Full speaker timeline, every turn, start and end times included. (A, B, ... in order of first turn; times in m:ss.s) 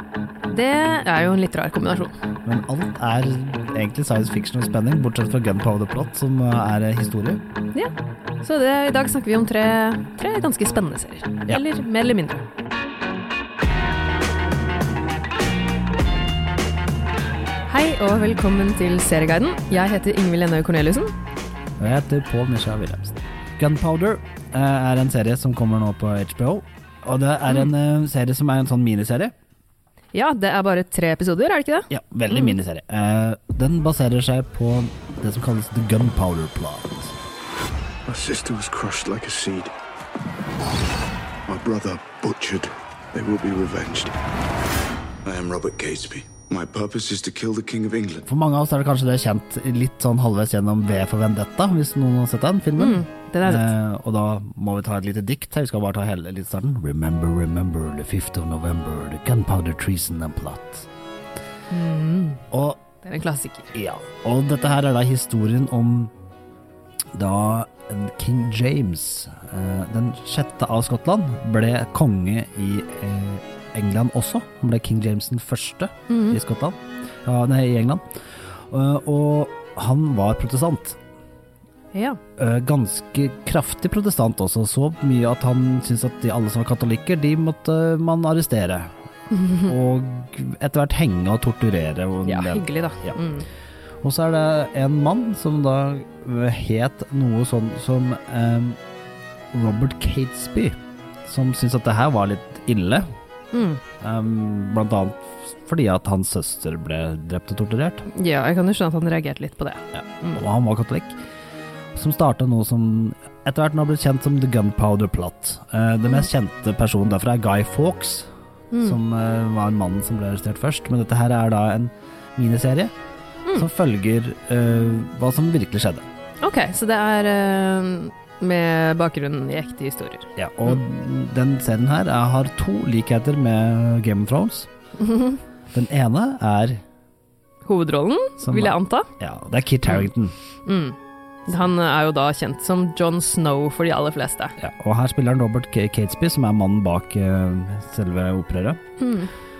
0:00.5-0:02.1 A
0:02.4-0:07.4 B
0:07.7-0:12.5 A
0:17.7-0:21.1 A
0:21.8-0:29.3 B
0:30.1-0:32.5 A
0:31.9-0:37.2 B
0:38.1-0:39.7 C
0:41.5-0:44.1 C
0:45.2-0:48.2 C
0:48.3-1:00.9 B
0:52.8-0:53.7 A
1:01.7-1:02.4 A
1:02.5-1:02.8 B
1:03.0-1:03.7 A
1:03.7-1:06.1 B
1:07.1-1:21.0 B
1:16.1-1:16.4 A
1:21.9-1:22.2 A
1:22.4-1:28.9 B
1:29.5-1:33.2 B
1:32.2-1:33.4 A
1:34.0-1:38.8 B
1:39.5-1:43.0 B
1:43.5-1:43.8 A
1:44.0-1:48.0 B
1:48.1-1:50.4 A
1:49.9-1:51.2 B
1:51.9-1:58.3 B
1:58.7-1:59.0 A
1:58.8-2:02.9 B
2:03.5-2:06.0 B
2:06.4-2:10.8 A
2:10.4-2:14.7 B
2:15.0-2:15.4 A
2:15.7-2:16.8 B
2:17.6-2:19.1 A
2:18.4-2:20.4 B
2:20.7-2:21.0 A
2:21.5-2:24.5 A
2:24.6-2:28.8 B
2:29.0-2:29.3 A